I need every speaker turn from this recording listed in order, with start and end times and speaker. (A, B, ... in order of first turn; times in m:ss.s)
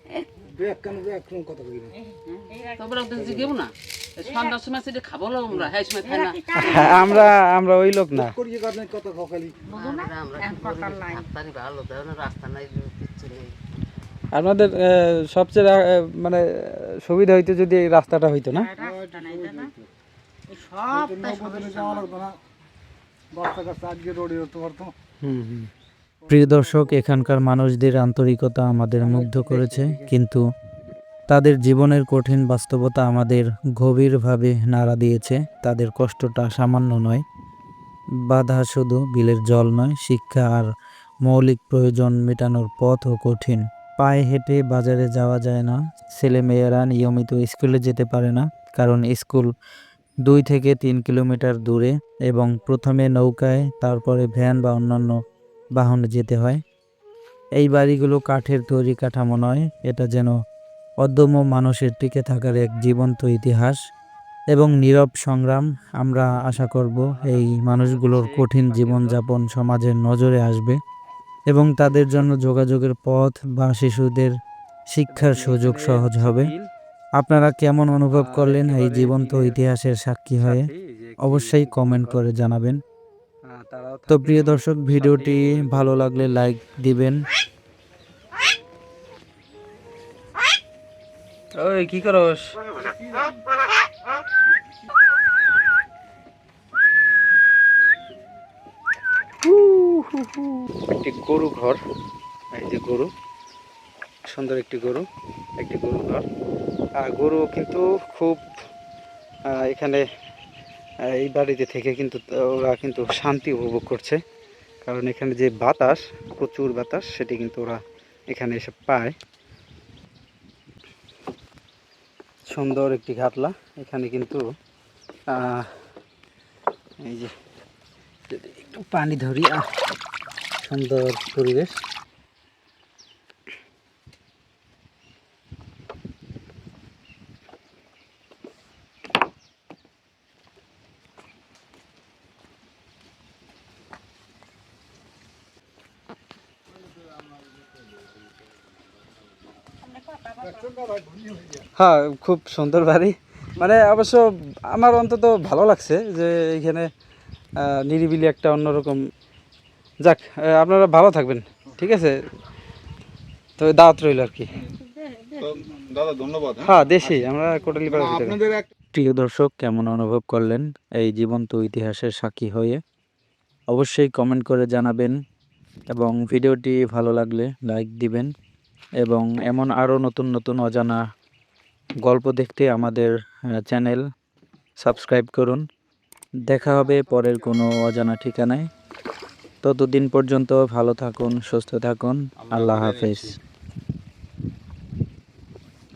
0:00.4-0:01.9 A
0:02.0-0:03.3 B
0:02.8-0:06.4 C
0:04.2-0:04.6 B
0:05.8-0:07.3 B
0:06.6-0:08.4 D
0:08.2-0:09.5 A
0:09.7-0:11.3 B
0:09.7-0:13.6 C
0:14.3-0:18.7 D
0:18.5-0:19.7 B
0:18.9-0:19.7 A
0:20.5-0:22.1 B
0:21.0-0:22.3 A
0:23.3-0:24.9 A
0:25.2-0:25.7 D
0:26.3-0:30.4 E
0:31.3-0:37.2 E
0:38.3-0:40.7 E
0:41.2-0:49.5 E
0:50.2-0:55.2 E
0:55.8-0:56.6 E
0:57.6-1:00.3 E
1:01.0-1:03.8 E
1:04.5-1:10.8 E
1:07.0-1:09.2 D
1:11.5-1:14.4 E
1:14.9-1:16.5 E
1:15.1-1:16.7 D
1:17.2-1:20.7 E
1:18.1-1:19.6 D
1:20.4-1:22.2 D
1:21.2-1:22.8 E
1:23.4-1:25.9 D
1:24.1-1:27.2 E
1:31.6-1:32.6 D
1:39.4-1:41.8 D
1:42.5-1:43.1 D
1:44.3-1:45.1 D
1:45.6-1:46.2 D
1:47.0-1:48.4 D
1:49.5-1:50.0 D
1:51.0-1:54.2 D
1:54.8-1:59.2 D
2:02.5-2:04.4 D
2:05.3-2:05.7 D
2:07.0-2:07.3 D
2:08.3-2:09.6 D
2:10.6-2:11.8 D
2:29.8-2:30.7 B
2:30.7-2:31.6 A
2:31.8-2:36.9 D
2:37.6-2:39.0 D
2:40.0-2:42.2 D
2:43.6-2:44.5 D
2:44.6-2:45.5 B
2:45.4-2:47.2 F
2:46.6-2:48.4 D
2:47.8-2:48.7 F
2:48.9-2:52.8 E
2:53.7-2:55.2 E
2:55.9-2:58.3 E
2:59.0-3:01.0 E
3:02.0-3:04.0 E
3:04.8-3:05.6 E
3:06.4-3:08.7 E
3:09.6-3:13.4 E
3:12.4-3:13.4 F